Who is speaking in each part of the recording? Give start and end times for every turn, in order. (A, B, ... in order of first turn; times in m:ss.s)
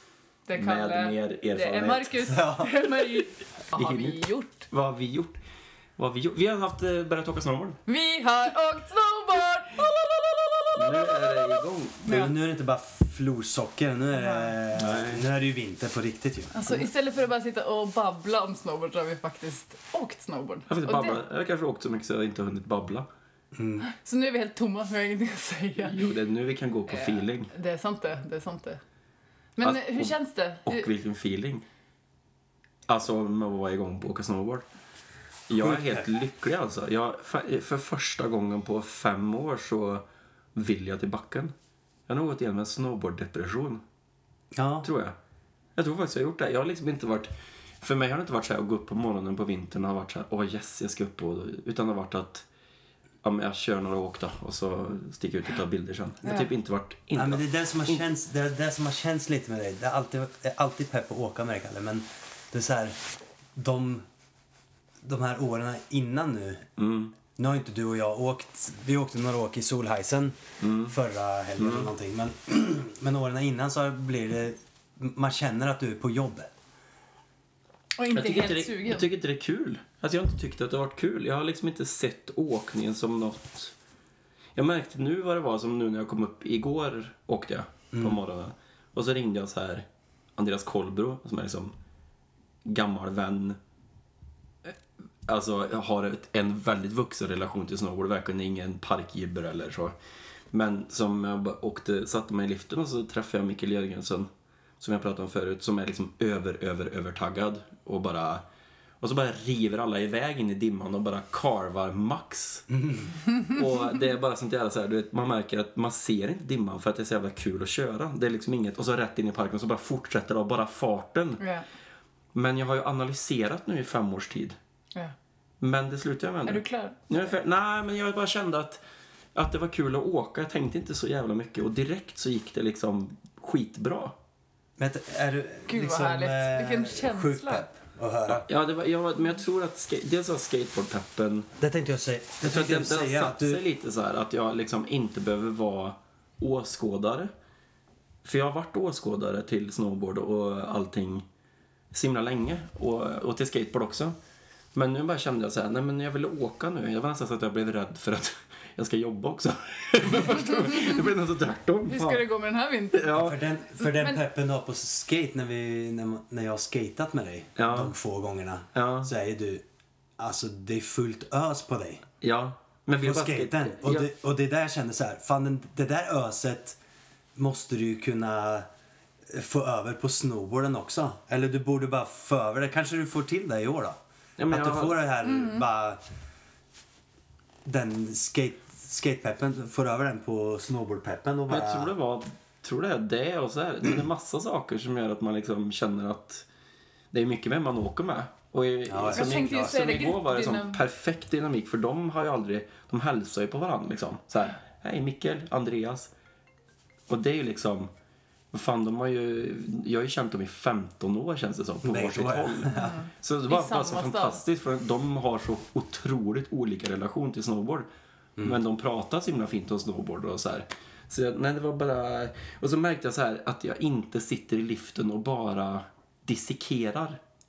0:00.5-0:04.7 A
0:00.6-0:02.2 B
0:02.2-0:03.1 C
0:03.7-0:05.4 B
0:06.0-0:07.8 B
0:07.9-0:12.3 A
0:10.7-0:12.1 B
0:12.1-0:16.8 C
0:14.2-0:14.6 A
0:14.7-0:15.2 B
0:16.5-0:21.2 A
0:20.7-0:23.1 B
0:23.6-0:23.9 C
0:23.8-0:26.0 A
0:25.8-0:27.5 B
0:26.9-0:28.8 A
0:29.6-0:30.9 A
0:29.6-0:30.1 B
0:30.7-0:31.6 B
0:32.9-0:34.6 B
0:35.5-0:41.5 B
0:35.6-0:36.1 C
0:42.1-0:43.8 B
0:44.5-0:44.9 C
0:44.8-0:45.2 B
0:45.8-0:47.3 B
0:47.8-0:52.4 B
0:53.2-0:58.0 B
0:57.2-1:03.0 C
1:03.6-1:04.1 C
1:05.0-1:06.7 C
1:06.8-1:07.2 B
1:07.4-1:16.5 C
1:10.6-1:11.0 B
1:11.6-1:11.9 B
1:18.0-1:19.1 A
1:18.1-1:23.7 B
1:24.6-1:29.8 B
1:27.9-1:28.2 C
1:30.4-1:31.8 B
1:32.6-1:33.6 B
1:34.6-1:39.9 B
1:40.5-1:44.3 B
1:44.8-1:48.4 B
1:49.0-1:52.7 B
1:52.8-1:53.1 C
1:53.4-2:01.4 B
2:01.4-2:01.6 A
2:02.3-2:04.6 B
2:05.6-2:08.8 B
2:06.5-2:07.0 A
2:09.4-2:14.2 B
2:14.8-2:18.5 C
2:15.7-2:17.7 A
2:18.3-2:21.5 B
2:21.6-2:23.6 C
2:22.4-2:27.3 B
2:28.2-2:31.3 B
2:31.9-2:34.2 B
2:34.7-2:42.2 B
2:41.9-2:43.1 A
2:42.9-2:43.4 B
2:43.1-2:49.6 C
2:43.8-2:44.2 A
2:47.6-2:47.9 B
2:48.7-2:49.1 B
2:50.2-2:52.1 C
2:52.2-2:54.1 B
2:53.0-2:56.8 C
2:57.4-2:58.7 C
2:59.3-3:04.0 C
3:04.4-3:05.0 B
3:04.5-3:06.0 C
3:05.2-3:05.7 A
3:07.6-3:11.9 C
3:11.5-3:16.4 B
3:17.1-3:26.1 B
3:18.9-3:19.5 C
3:19.1-3:20.8 A
3:27.1-3:27.9 B
3:28.5-3:37.9 B
3:31.8-3:33.0 C
3:32.7-3:34.4 A
3:38.4-3:47.2 B